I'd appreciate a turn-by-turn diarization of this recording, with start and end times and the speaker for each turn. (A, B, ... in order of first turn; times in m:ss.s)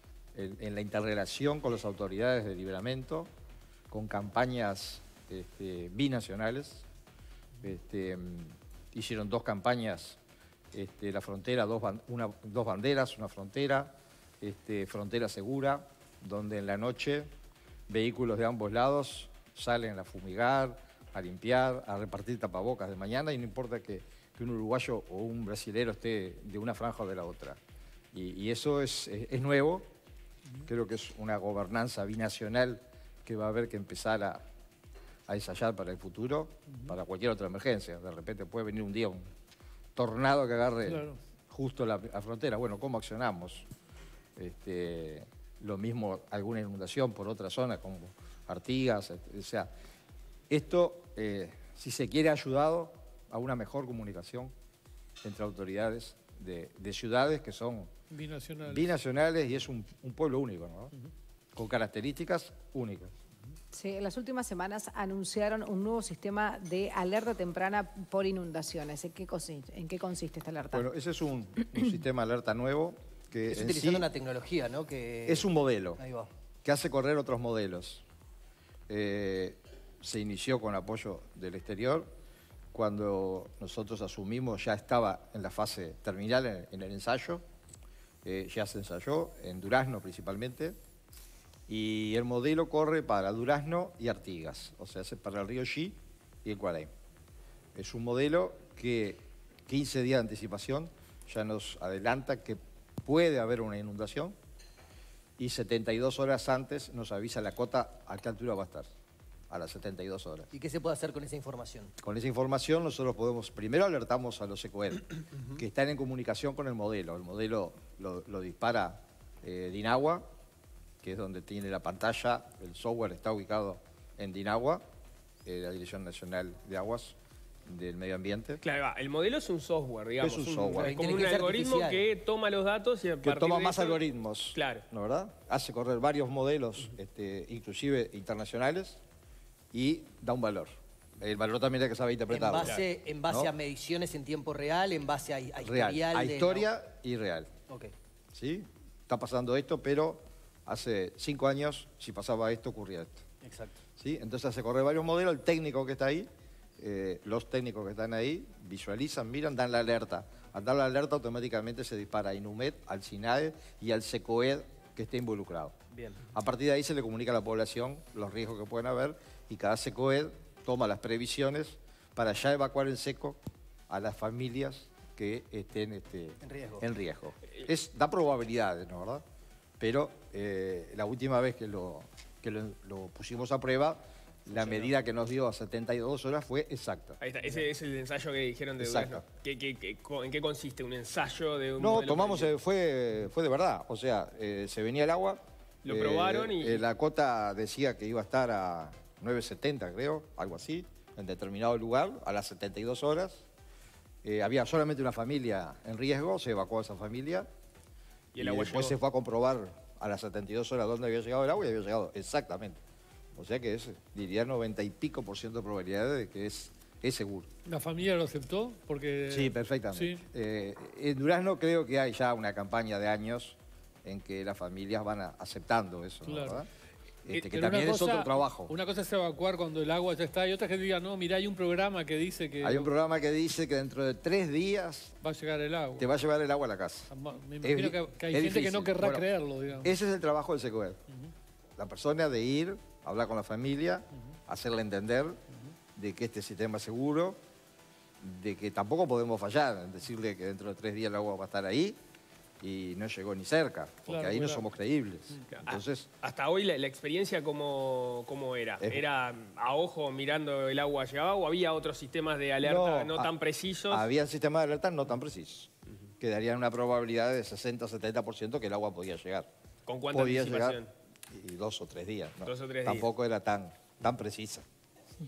0:00.3-0:03.3 A
0:03.9-0:06.8 A
0:07.6-0:10.2 A
0:10.7-0:17.3 A
0:17.9-0:27.6 A
0:28.1-0:29.8 A
0:30.7-0:34.4 A
0:35.3-0:39.2 A
0:39.9-0:43.6 A
0:40.8-0:41.2 B
0:44.4-0:49.7 A
0:50.5-0:54.5 A
0:55.2-0:57.9 A
0:58.1-0:58.9 B
0:58.6-1:00.9 A
1:01.6-1:03.1 A
1:03.7-1:10.8 C
1:10.7-1:14.1 A
1:13.5-1:16.3 D
1:15.2-1:16.0 A
1:16.6-1:18.0 A
1:18.9-1:22.1 A
1:22.7-1:27.4 A
1:28.2-1:30.7 A
1:31.7-1:36.9 A
1:37.7-1:44.3 A
1:45.4-1:48.9 A
1:49.5-1:50.5 A
1:50.5-1:51.9 D
1:52.0-2:00.2 A
2:01.0-2:04.8 A
2:05.4-2:07.2 A
2:07.7-2:08.6 A
2:08.6-2:14.0 E
2:10.2-2:10.9 A
2:10.8-2:12.1 D
2:13.2-2:19.0 A
2:14.5-2:14.8 E
2:19.7-2:22.7 A
2:22.3-2:26.6 D
2:22.6-2:22.9 E
2:25.6-2:27.5 A
2:28.3-2:33.2 A
2:33.4-2:33.8 D
2:34.0-2:36.3 A
2:36.8-2:45.8 A
2:45.9-2:46.3 D
2:46.3-2:59.2 A
2:56.4-2:56.8 D
2:59.8-3:07.2 A
3:07.2-3:12.5 E
3:08.8-3:09.2 A
3:11.8-3:23.4 A
3:15.8-3:16.8 E
3:24.2-3:27.5 A
3:28.3-3:29.0 E
3:28.4-3:32.8 A
3:33.3-3:37.5 A
3:37.6-3:40.2 B
3:39.3-3:46.7 A
3:46.2-3:46.6 B
3:47.2-3:48.7 A
3:47.3-3:52.9 B
3:52.6-3:55.1 A
3:55.2-3:56.1 B
3:56.0-3:57.1 A
3:57.1-3:59.9 B
3:57.6-3:59.3 A
3:59.8-4:01.0 A
4:01.8-4:05.4 A
4:06.0-4:07.4 A
4:08.2-4:12.0 A
4:12.6-4:16.1 A
4:14.1-4:14.6 B
4:15.5-4:24.1 E
4:22.6-4:23.3 A
4:23.9-4:29.5 A
4:29.9-4:30.9 E
4:30.1-4:34.6 A
4:32.4-4:33.1 E